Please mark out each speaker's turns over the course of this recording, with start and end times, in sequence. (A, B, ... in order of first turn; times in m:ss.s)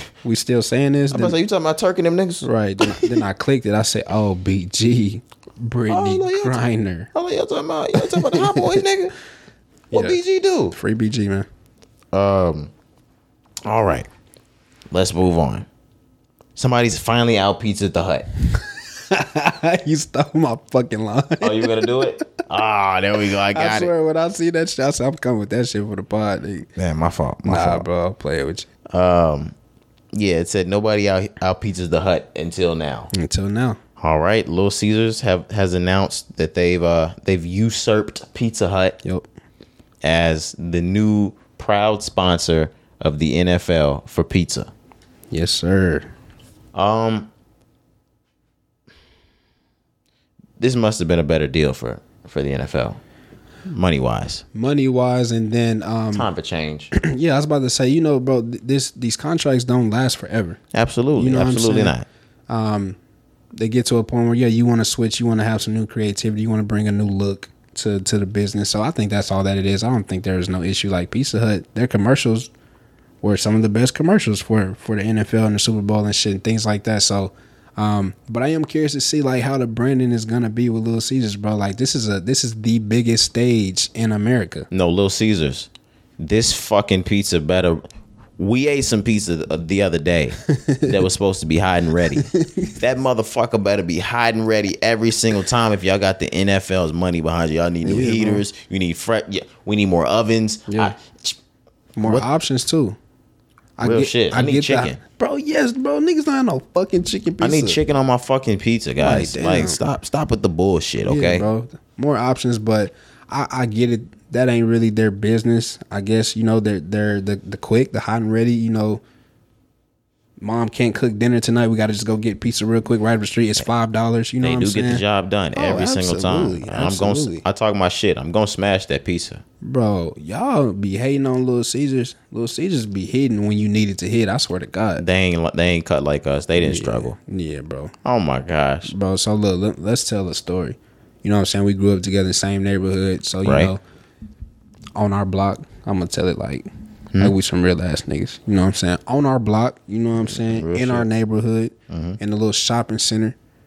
0:00.2-0:01.4 A
0:01.1-0:03.1 B
0:02.4-0:07.1 A
0:05.9-0:06.6 B
0:07.1-0:09.1 B
0:08.0-0:08.8 A
0:09.9-0:10.8 B
0:09.9-0:10.2 A
0:10.7-0:11.5 A
0:12.1-0:12.7 B
0:13.6-0:14.1 B
0:14.9-0:15.6 B
0:16.6-0:18.3 B
0:18.5-0:22.2 A
0:21.4-0:23.9 B
0:23.5-0:26.7 A
0:26.8-0:27.8 B
0:27.4-0:28.7 A
0:28.9-0:29.5 B
0:30.1-0:33.1 B
0:33.1-0:33.8 A
0:34.0-0:39.0 B
0:40.0-0:44.7 B
0:45.3-0:46.1 A
0:46.7-0:47.3 B
0:50.6-0:53.0 B
0:53.6-0:54.4 B
0:54.5-0:56.3 A
0:56.1-0:56.9 B
0:56.9-1:00.6 A
1:00.7-1:02.0 B
1:01.2-1:01.9 A
1:02.5-1:03.0 A
1:03.5-1:12.5 A
1:13.2-1:24.7 A
1:24.7-1:27.8 B
1:28.4-1:41.4 B
1:30.6-1:30.9 A
1:32.2-1:32.7 A
1:37.8-1:38.4 A
1:40.7-1:40.9 A
1:42.0-1:43.0 A
1:43.8-1:47.8 A
1:43.8-1:45.0 B
1:47.4-1:51.5 B
1:49.0-1:49.8 A
1:51.0-1:59.0 A
2:00.4-2:05.0 A
2:04.4-2:09.4 B
2:05.5-2:07.4 A
2:09.6-2:15.0 A
2:15.0-2:17.2 B
2:16.6-2:17.9 A
2:18.0-2:18.9 B
2:18.8-2:23.8 A
2:23.4-2:23.7 B
2:24.9-2:33.4 A
2:30.2-2:31.0 B
2:31.9-2:32.2 B